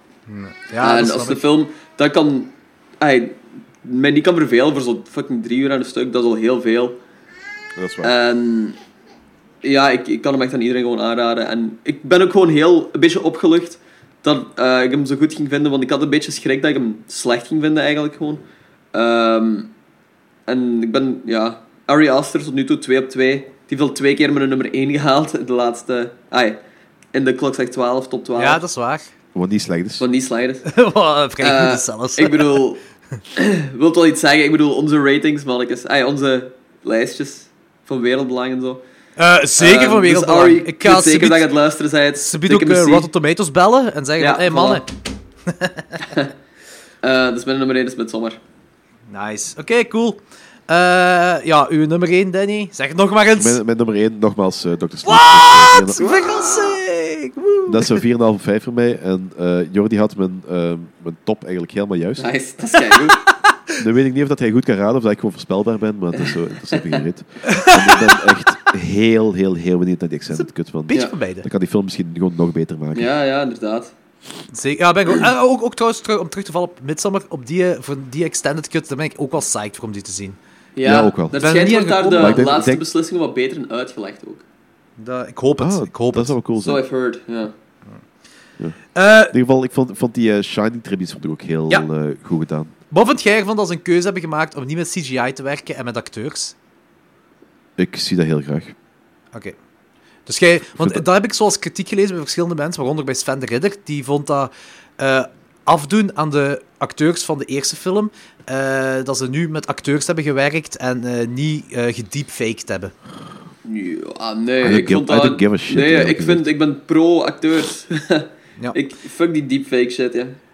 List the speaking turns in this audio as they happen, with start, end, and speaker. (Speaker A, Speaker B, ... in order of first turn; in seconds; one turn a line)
Speaker A: 0.3-1.4
Speaker B: 0.8-7.0
Speaker C: 7.8-8.1
Speaker B: 8.0-8.8
Speaker B: 9.6-19.7
Speaker B: 20.5-26.6
Speaker B: 27.1-28.6
Speaker A: 28.4-29.1
Speaker C: 29.3-30.1
Speaker B: 30.0-30.6
Speaker A: 30.6-32.6
Speaker B: 31.4-32.8
Speaker B: 33.3-38.8
Speaker A: 39.2-41.5
Speaker B: 39.6-43.1
Speaker A: 42.1-44.8
Speaker B: 44.2-44.8
Speaker A: 45.5-46.0
Speaker B: 46.0-46.3
Speaker B: 47.0-48.4
Speaker A: 49.1-53.6
Speaker C: 53.4-56.0
Speaker A: 55.0-58.0
Speaker B: 56.0-56.8
Speaker C: 57.7-62.3
Speaker B: 62.2-63.2
Speaker C: 63.8-73.1
Speaker B: 66.1-67.0
Speaker A: 67.5-67.9
Speaker A: 70.3-71.5
Speaker B: 72.9-73.9
Speaker A: 74.5-80.4
Speaker B: 80.8-84.4
Speaker C: 80.8-81.3
Speaker A: 81.4-82.5
Speaker C: 82.2-82.8
Speaker A: 85.0-86.3
Speaker C: 85.6-86.8
Speaker B: 86.6-87.5
Speaker A: 88.9-89.3
Speaker C: 89.3-92.7
Speaker A: 92.9-96.5
Speaker C: 97.8-98.7
Speaker A: 100.2-112.9
Speaker C: 100.8-101.0
Speaker B: 113.6-120.3
Speaker C: 114.6-116.5